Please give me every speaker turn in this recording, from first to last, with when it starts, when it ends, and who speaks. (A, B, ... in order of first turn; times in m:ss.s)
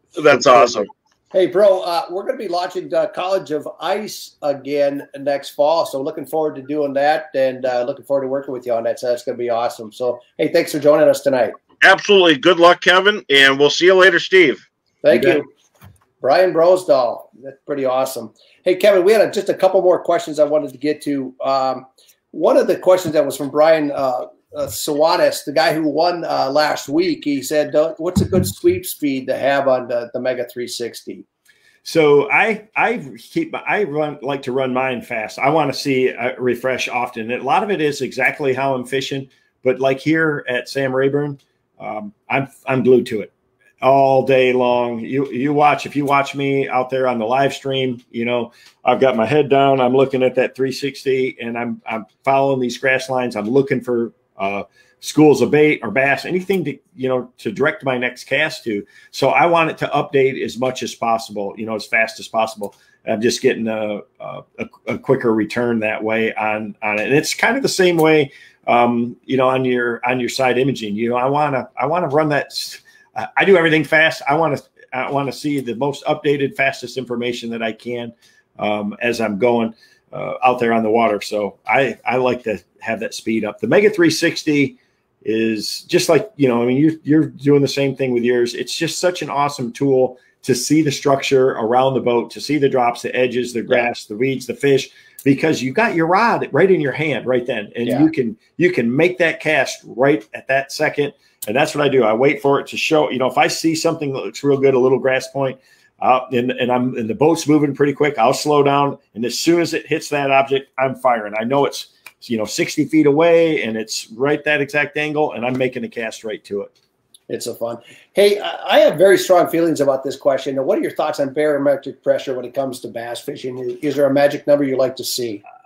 0:00.2-0:00.9 A
0:00.3-0:00.8 B
0:01.3-0:11.6 C
0:11.8-0:14.6 A
0:15.0-0:15.5 C
0:16.2-0:31.2 C
0:31.8-1:56.7 B
1:57.3-2:05.4 C